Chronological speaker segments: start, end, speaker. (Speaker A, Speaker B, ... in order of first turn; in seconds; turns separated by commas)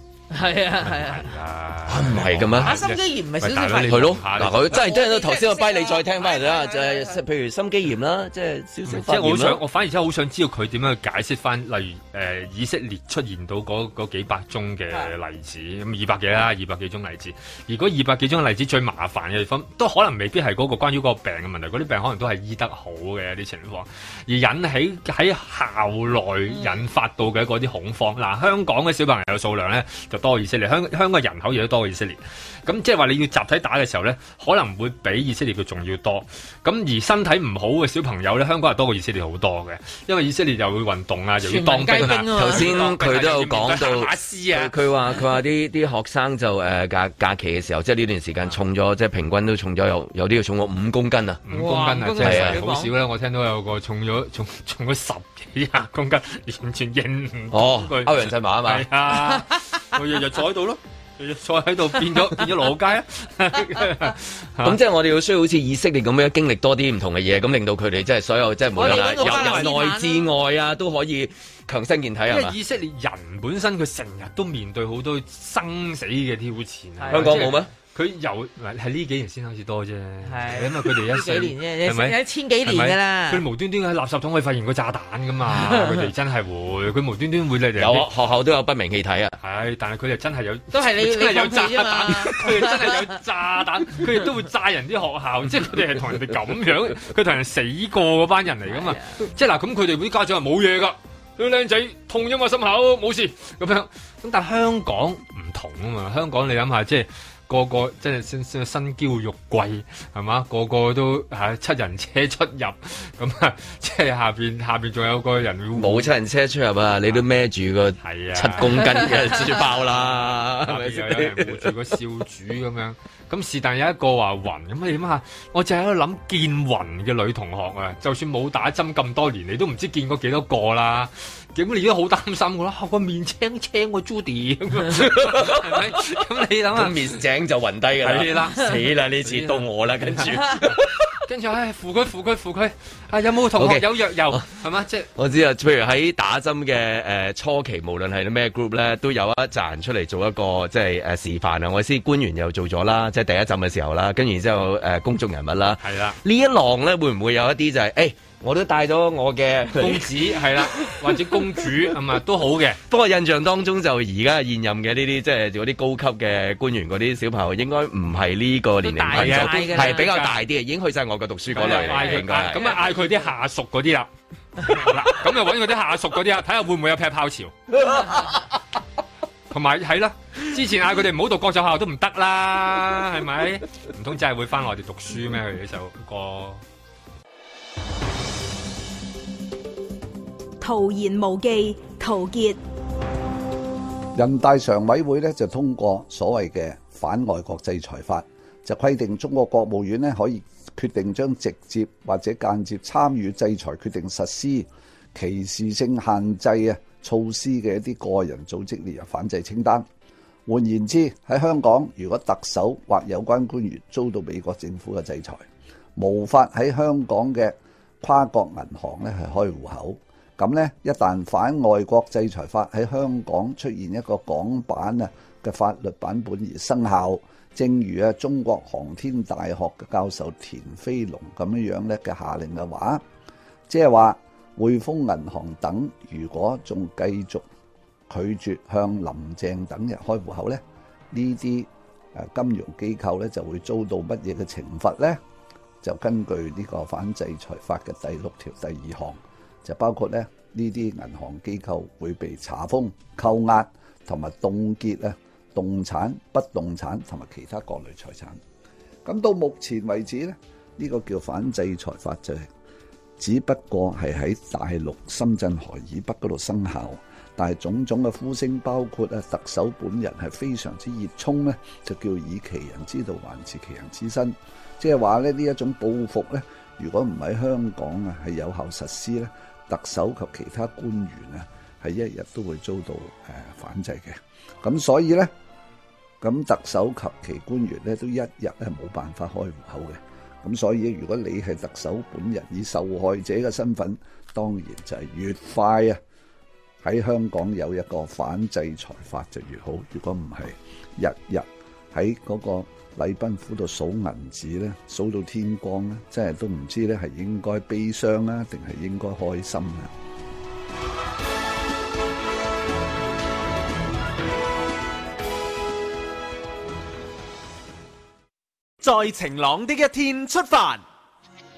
Speaker A: 0.3-1.3, Speaker B: 0.9-4.8, Speaker C: 1.9-2.8, Speaker A: 2.6-7.2, Speaker C: 3.8-9.6, Speaker B: 8.9-44.7, Speaker A: 41.4-42.8, Speaker C: 42.0-51.4, Speaker B: 51.5-64.8, Speaker A: 51.5-52.9, Speaker C: 52.2-52.6, Speaker C: 57.5-58.9, Speaker C: 64.6-72.5, Speaker A: 68.8-70.3, Speaker B: 68.8-69.8, Speaker B: 72.3-88.1, Speaker A: 77.0-77.7, Speaker C: 77.1-77.7, Speaker A: 80.2-83.4, Speaker C: 87.8-89.4, Speaker B: 89.4-116.1, Speaker A: 90.7-92.9, Speaker A: 98.7-99.1, Speaker C: 115.8-121.7, Speaker B: 118.0-137.2, Speaker C: 134.9-136.2, Speaker C: 136.7-141.1, Speaker B: 138.0-145.1, Speaker C: 143.6-144.4, Speaker C: 145.2-161.4, Speaker B: 155.8-156.2, Speaker B: 159.8-162.8, Speaker C: 162.9-172.7, Speaker A: 168.8-170.1, Speaker B: 169.1-170.4, Speaker B: 171.5-174.1, Speaker A: 171.6-172.7, Speaker B: 174.7-177.5, Speaker B: 179.5-186.6, Speaker D: 190.6-192.6, Speaker E: 194.2-209.9, Speaker E: 210.5-215.4, Speaker E: 216.0-233.0, Speaker E: 233.7-237.5, Speaker E: 238.1-245.2, Speaker E: 245.8-258.4, Speaker E: 259.1-262.5, Speaker E: 263.2-285.3, Speaker E: 286.2-296.0, Speaker E: 296.8-309.9, Speaker F: 318.8-320.8